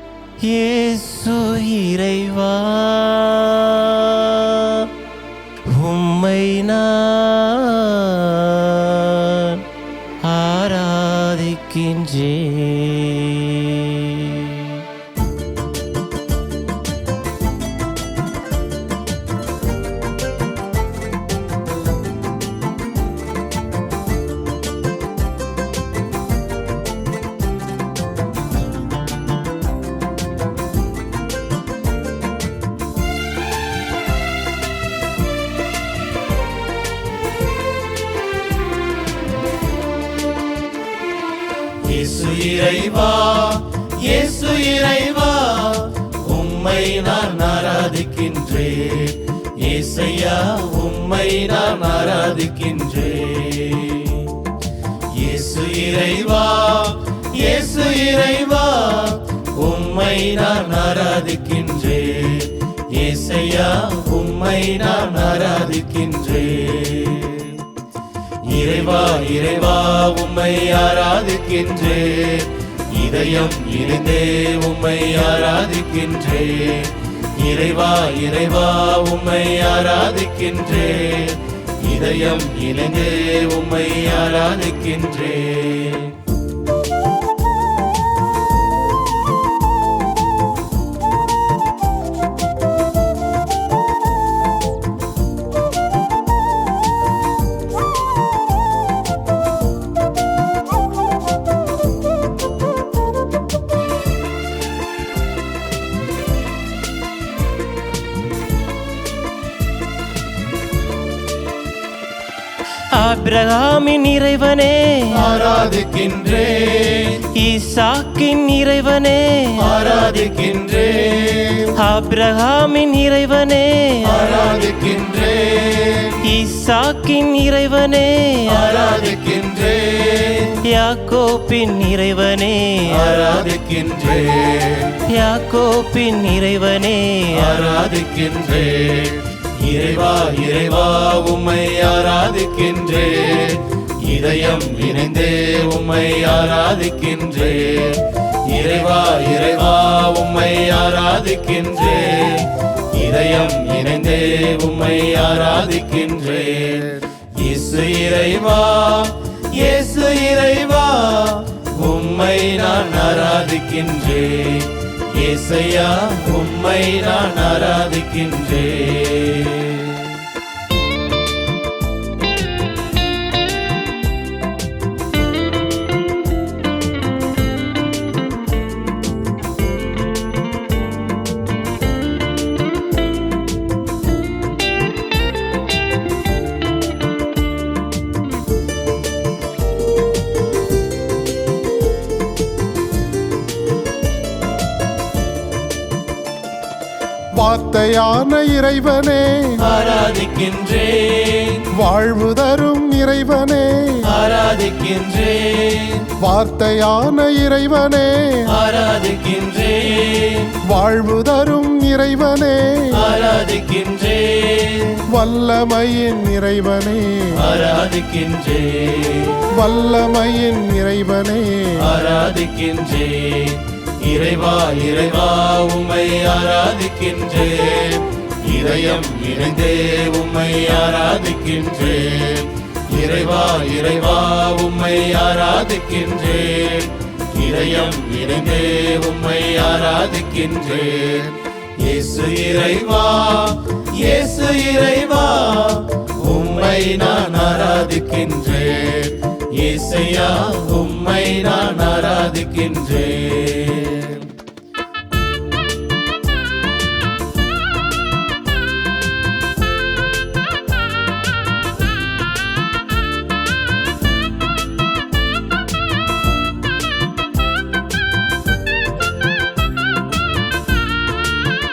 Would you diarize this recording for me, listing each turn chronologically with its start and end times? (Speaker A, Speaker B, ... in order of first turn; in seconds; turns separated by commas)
Speaker A: 0.4-4.9, Speaker A: 5.6-9.7, Speaker A: 10.2-14.8, Speaker B: 41.8-54.4, Speaker B: 55.1-67.7, Speaker B: 68.4-86.2, Speaker A: 112.9-115.3, Speaker B: 115.1-117.3, Speaker A: 117.3-119.7, Speaker B: 119.6-121.7, Speaker A: 121.7-124.3, Speaker B: 124.1-126.2, Speaker A: 126.2-128.7, Speaker B: 128.5-130.6, Speaker A: 130.6-133.1, Speaker B: 132.9-135.0, Speaker A: 135.1-137.6, Speaker B: 137.4-170.2, Speaker C: 197.3-199.6, Speaker B: 199.6-201.7, Speaker C: 201.7-204.1, Speaker B: 204.0-206.2, Speaker C: 206.2-208.5, Speaker B: 208.5-210.6, Speaker C: 210.6-213.0, Speaker B: 212.9-215.1, Speaker C: 215.1-217.4, Speaker B: 217.4-219.5, Speaker C: 219.5-221.9, Speaker B: 221.8-254.3